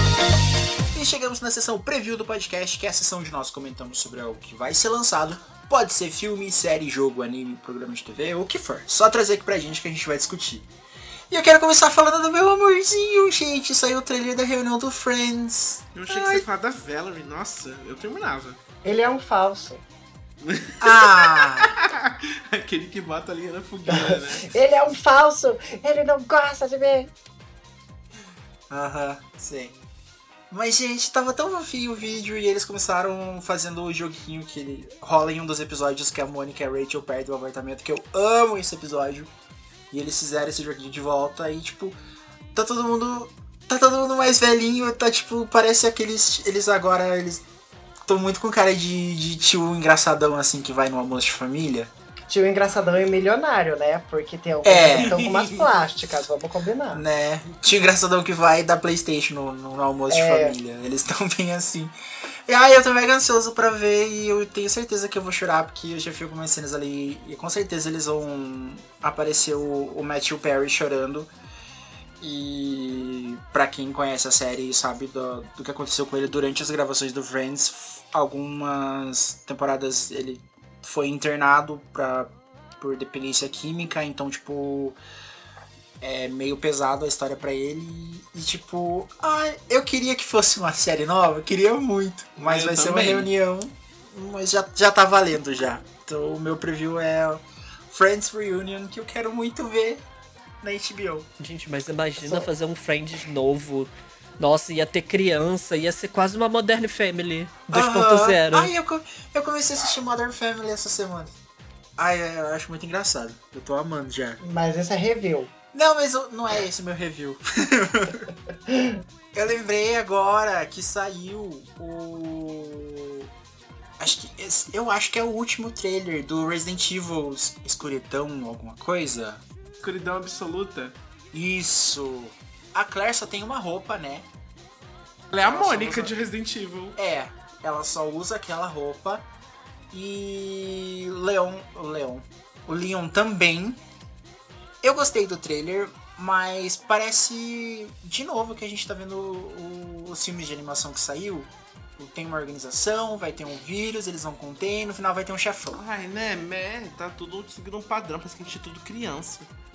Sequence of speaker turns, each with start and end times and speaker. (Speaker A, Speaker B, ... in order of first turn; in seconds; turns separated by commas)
Speaker A: 0.9-10.7, Speaker A: 11.3-16.4, Speaker B: 15.9-18.6, Speaker C: 18.8-19.8, Speaker B: 20.4-24.5, Speaker A: 20.8-21.7, Speaker C: 23.9-27.1, Speaker A: 28.7-29.8, Speaker A: 30.5-39.3, Speaker A: 39.9-42.0, Speaker A: 42.5-47.5, Speaker A: 48.1-51.9, Speaker C: 52.3-57.0, Speaker A: 54.6-55.2, Speaker B: 55.0-55.7, Speaker A: 56.9-62.0, Speaker C: 60.1-60.6, Speaker A: 62.5-71.3, Speaker A: 72.2-85.0, Speaker A: 86.0-100.0, Speaker B: 92.4-93.3, Speaker A: 100.6-101.3, Speaker D: 101.4-108.7, Speaker A: 107.7-111.3, Speaker A: 112.0-114.4, Speaker C: 114.4-115.5, Speaker A: 115.7-118.3, Speaker C: 118.7-119.0, Speaker A: 119.3-123.3, Speaker A: 124.0-129.4, Speaker B: 129.8-131.0, Speaker A: 131.3-134.3, Speaker B: 135.3-137.0, Speaker A: 135.4-136.1, Speaker A: 137.0-139.3, Speaker A: 139.9-143.8, Speaker A: 144.8-155.8, Speaker B: 155.7-159.5